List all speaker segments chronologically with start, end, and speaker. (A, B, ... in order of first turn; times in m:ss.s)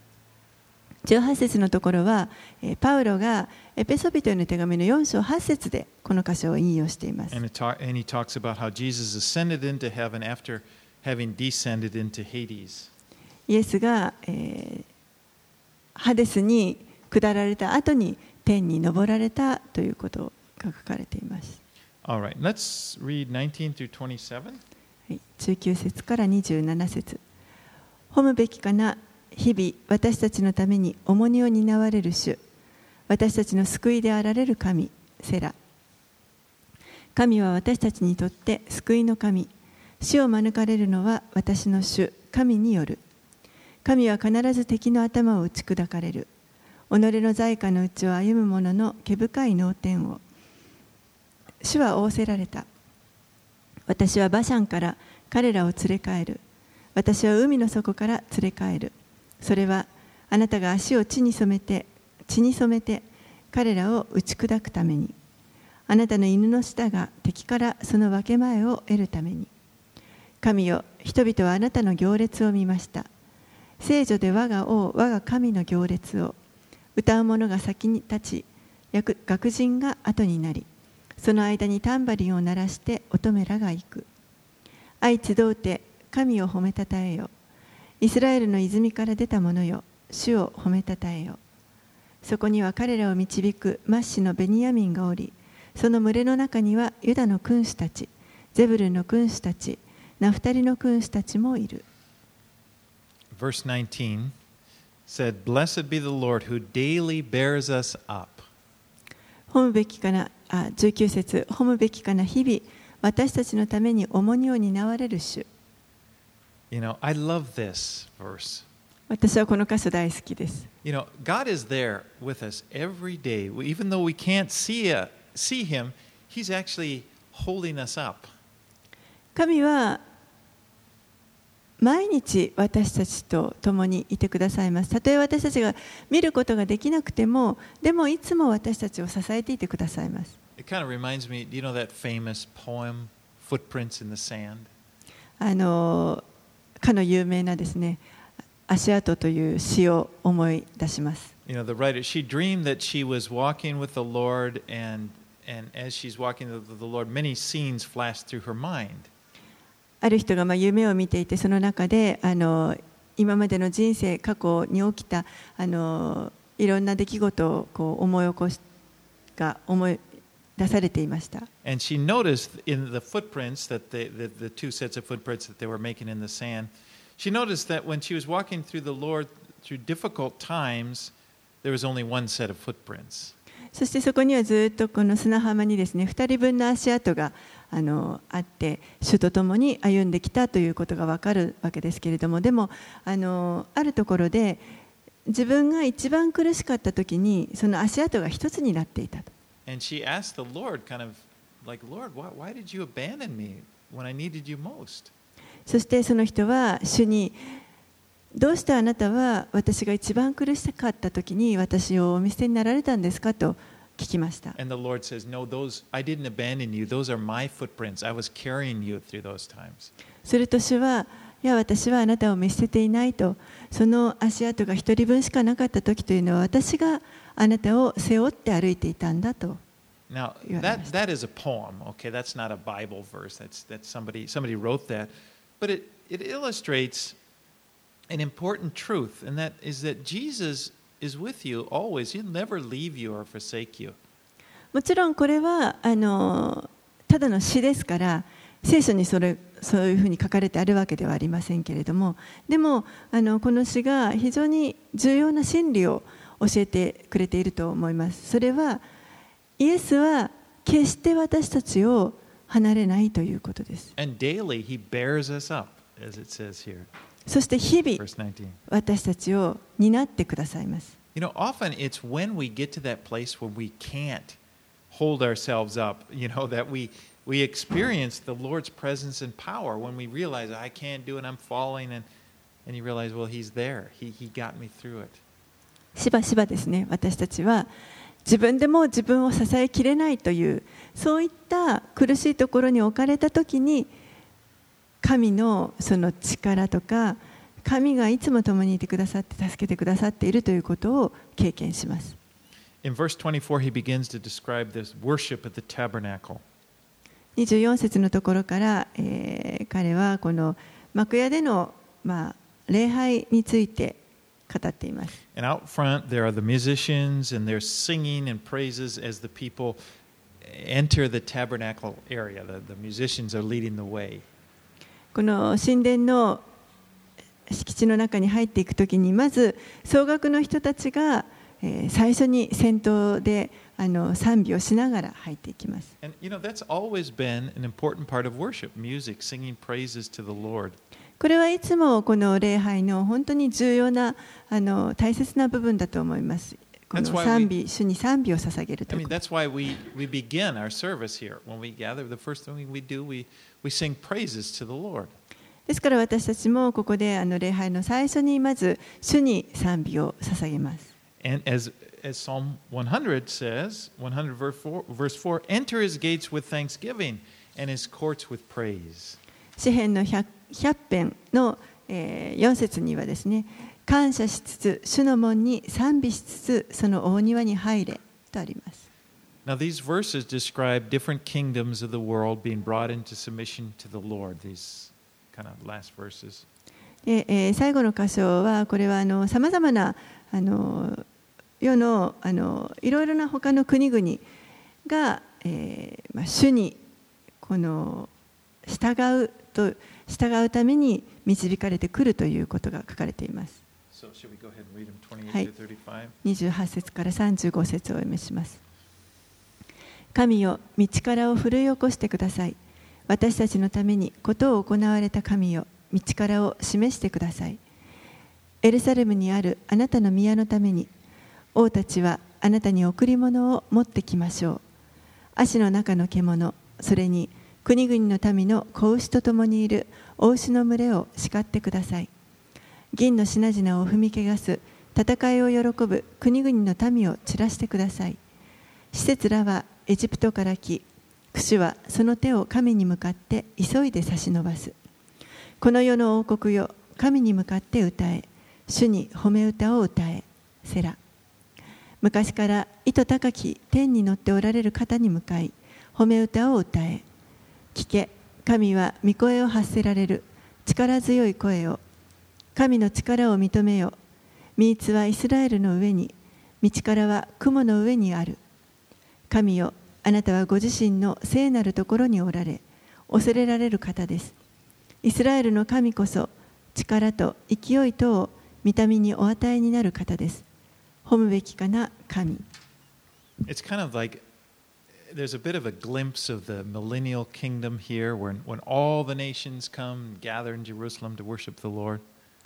0:01.1-0:07.4 A
0:07.3-0:12.9 B
0:13.5-0:14.9 A
0:16.0-0:21.6 A
0:22.0-0:24.6 B
0:25.1-0:27.2 A
0:28.1-0:32.4 A
0:33.1-0:35.6 A
0:37.2-0:43.0 A
0:43.8-0:46.3 A
0:46.9-0:50.2 A
0:51.6-0:52.7 A
0:53.9-0:56.4 A
0:57.0-1:05.2 A
1:05.9-1:09.5 A
1:10.4-1:13.1 A
1:13.8-1:16.4 A
1:17.0-1:20.7 A
1:21.2-1:24.1 A
1:25.0-1:27.3 A
1:28.0-1:31.4 A
1:32.2-1:41.8 A
1:43.3-1:44.3 B
1:45.1-1:48.5 B
1:49.5-1:55.5 A
1:56.7-1:58.7 B
1:59.1-2:00.7 A
2:00.8-2:08.3 B
2:09.4-2:10.0 A
2:11.8-2:20.4 A
2:20.6-2:24.7 B
2:25.4-2:26.2 A
2:26.8-2:28.0 A
2:28.7-2:31.3 A
2:31.5-2:39.1 B
2:40.0-2:48.6 A
2:49.4-2:50.0 A
2:50.6-2:51.5 A
2:51.6-3:03.4 B
3:03.7-3:14.6 A
3:15.3-3:19.3 A
3:19.7-3:25.1 B
3:25.7-3:27.4 A
3:28.4-3:34.6 A
3:34.6-3:39.9 B
3:40.2-3:49.6 A
3:50.1-3:57.2 B
3:50.4-3:50.9 A
3:58.1-4:04.0 B
4:04.7-4:18.8 A
4:19.6-4:23.9 A
4:24.0-4:26.9 B
4:27.3-4:28.0 A
4:28.0-4:28.6 B
4:28.7-4:31.0 A
4:31.2-4:34.4 B
4:34.9-4:42.1 B
4:42.7-4:45.2 B
4:46.0-4:47.7 A
4:48.2-4:53.9 A
4:55.0-5:02.2 A
5:02.8-5:06.4 B
5:07.4-5:14.0 A
5:14.5-5:15.2 A
5:15.3-5:19.8 B
5:20.4-5:24.3 B
5:25.1-5:26.4 A
5:27.5-5:35.9 A
5:36.0-5:40.8 B
5:41.2-5:49.1 A
5:47.0-5:47.5 B
5:48.9-5:55.1 B
5:55.7-6:00.9 A
6:01.2-6:09.2 B
6:09.6-6:18.9 A
6:19.5-6:26.5 B
6:27.0-6:31.0 A
6:31.6-6:34.2 A
6:34.9-6:36.8 A
6:37.4-6:38.1 A
6:38.6-6:43.6 A
6:43.9-6:46.2 B
6:46.2-6:48.6 A
6:50.1-6:57.6 A
6:58.6-7:00.9 A
7:01.6-7:04.6 A
7:05.4-7:12.1 A
7:12.9-7:18.2 A
7:18.9-7:24.8 A
7:25.6-7:31.0 A
7:32.0-7:37.0 A
7:37.7-7:41.8 A
7:42.6-7:44.0 A
7:44.6-7:48.4 A
7:49.3-7:54.4 A
7:55.0-8:00.4 A
8:01.0-8:02.5 A
8:03.5-8:04.2 B
8:05.1-8:12.0 B